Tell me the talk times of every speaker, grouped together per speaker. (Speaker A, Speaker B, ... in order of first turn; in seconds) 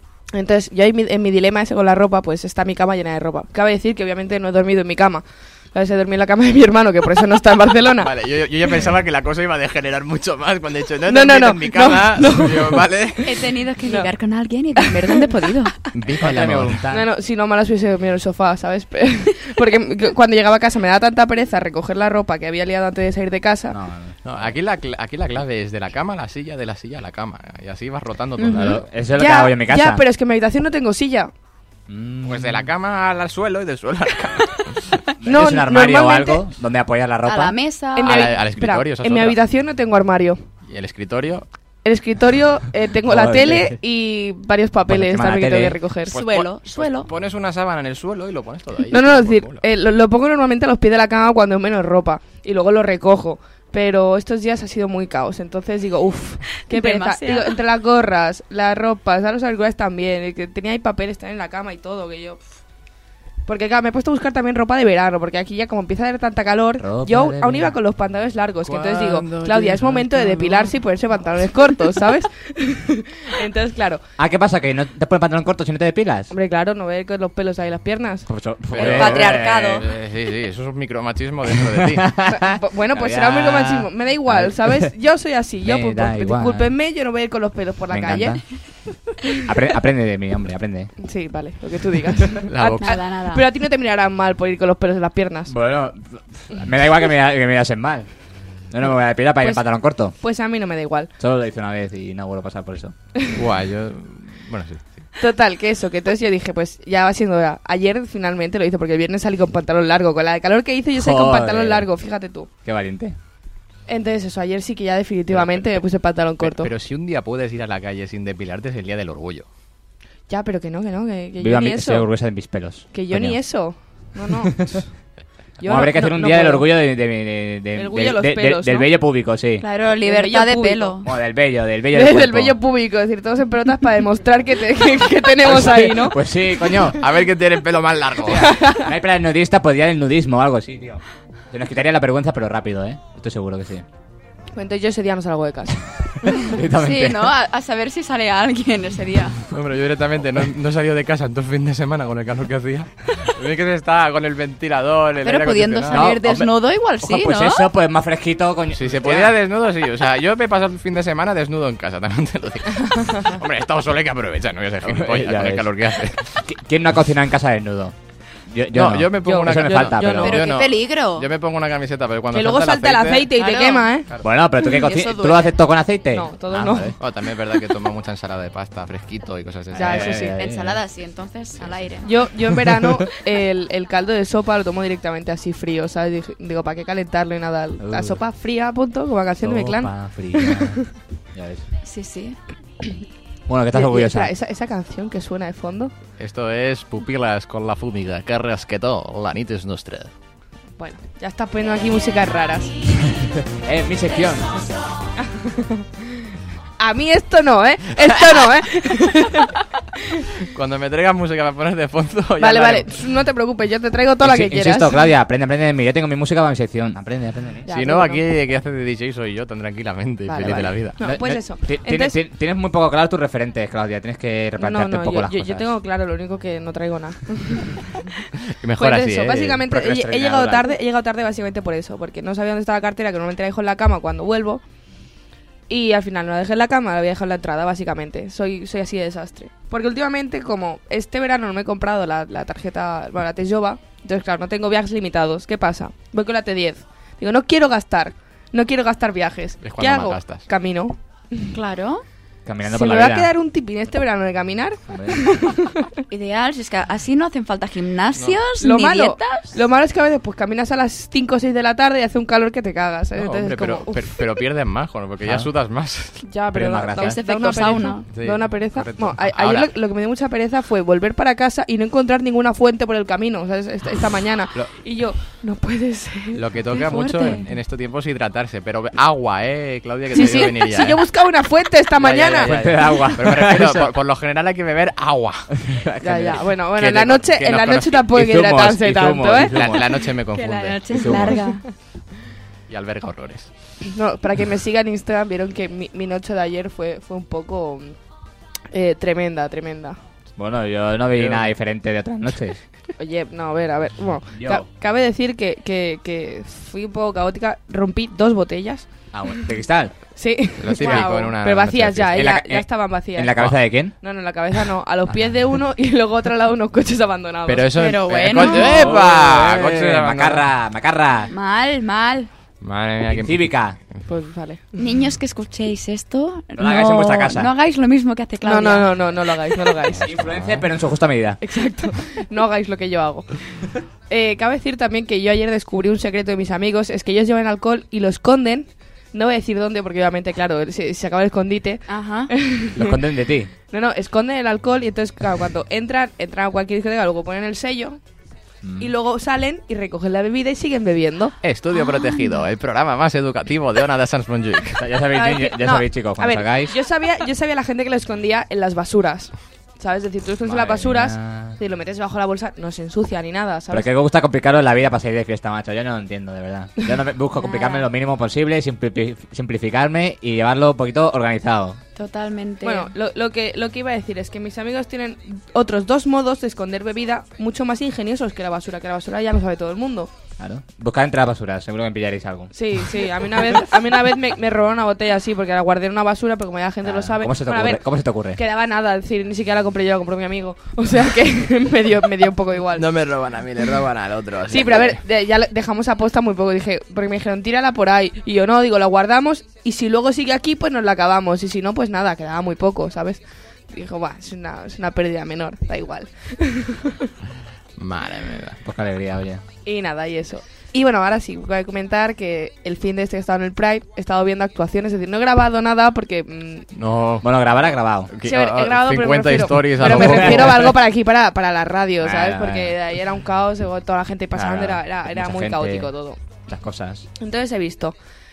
Speaker A: 0.3-8.1, 11.1-12.9, 16.9-23.8, 29.1-31.3, 35.2-36.4, 37.9-40.4, 41.8-46.1, 48.9-62.4, 63.5-74.0, 76.3-78.2, 82.3-88.4, 91.0-95.5, 100.2-101.1, 103.2-103.4, 105.2-112.5, 113.9-116.7, 120.3-122.1, 122.9-124.8, 125.6-126.7, 127.7-128.9, 130.1-131.0, 131.9-136.2, 138.3-138.9, 144.5-146.5, 169.2-170.4, 172.3-174.1, 176.1-176.9, 179.8-180.3, 182.0-190.8, 193.7-195.9, 200.8-202.8, 205.4-205.8, 206.8-209.5, 212.4-215.0, 217.7-218.2, 220.2-222.2, 224.6-227.9, 228.7-234.6, 235.7-250.9, 252.7-255.9, 258.6-264.2, 266.2-276.4, 280.1-282.5, 286.0-289.6, 291.1-291.4, 293.9-297.9, 298.7-300.0, 303.0-308.9, 310.1-317.7, 318.3-318.8, 324.1-324.9, 328.4-330.1, 331.4-343.0, 343.7-348.0, 348.8-351.4, 355.1-363.9, 372.6-380.1, 382.5-392.9, 394.5-407.1, 409.6-416.7, 418.2-426.2, 427.2-427.9
Speaker B: 8.0-13.4, 15.9-16.8, 24.2-28.8, 32.2-34.8, 38.0-39.4, 40.6-41.4, 46.1-49.6, 68.6-70.1, 78.3-82.2, 92.5-92.9, 103.3-105.0, 115.3-115.6, 116.4-119.5, 136.7-138.6, 149.5-156.1, 158.7-166.4, 168.7-173.3, 176.6-180.2, 196.2-200.1, 210.5-213.0, 217.7-221.0, 228.6-229.7, 249.6-250.5, 263.1-266.2, 268.1-269.7, 276.3-281.0, 282.0-285.5, 286.7-288.1, 289.4-291.2, 292.7-293.5, 301.1-301.5, 310.6-312.3, 317.4-320.5, 322.6-323.4, 330.2-330.6, 351.4-354.9, 392.8-395.0, 407.8-408.6, 416.7-417.3, 418.1-420.7
Speaker C: 13.2-15.7, 28.4-28.8, 37.2-38.3, 46.1-47.1, 56.6-57.6, 69.4-70.7, 78.7-79.9, 92.8-93.4, 129.6-131.1, 146.7-149.4, 155.2-157.7, 170.2-171.3, 173.3-174.0, 174.6-175.6, 180.2-182.1, 191.8-192.4, 251.5-252.0, 256.1-259.5, 266.9-268.1, 276.7-277.5, 280.2-280.5, 290.3-291.6, 310.7-311.3, 317.7-318.9, 321.3-322.3, 324.8-329.5, 341.9-342.3, 351.7-352.4, 367.4-367.9, 371.9-372.9
Speaker D: 16.0-17.1, 23.7-24.5, 28.5-30.0, 31.9-32.7, 35.2-37.6, 43.0-43.8, 44.9-45.8, 66.8-67.8, 74.2-76.3, 78.6-79.8, 81.8-84.9, 85.6-86.7, 87.9-88.4, 89.4-90.9, 95.5-98.1, 98.7-100.2, 101.2-102.9, 110.9-111.9, 112.6-113.2, 121.4-123.4, 125.6-129.6, 131.0-132.6, 135.4-137.0, 138.8-143.8, 146.3-147.3, 155.9-159.3, 164.8-165.7, 166.4-167.9, 168.5-170.4, 174.2-176.9, 179.7-180.8, 187.8-188.2, 189.4-190.8, 191.3-191.6, 193.5-194.3, 203.4-204.6, 214.2-217.7, 221.0-225.7, 229.7-230.7, 252.4-253.3, 254.9-255.2, 266.5-267.2, 282.4-283.9, 285.6-286.5, 288.1-289.9, 290.9-291.4, 300.4-302.6, 304.3-304.7, 309.1-309.9, 312.1-313.9, 318.4-321.3, 323.1-323.8, 326.5-327.5, 330.0-331.4, 342.7-343.5, 348.6-348.9, 354.8-356.8, 360.4-361.6, 363.7-371.8, 380.4-382.5, 386.8-388.4, 408.6-409.4, 417.2-418.1, 419.8-420.7, 422.0-422.8, 424.3-425.9, 426.5-427.1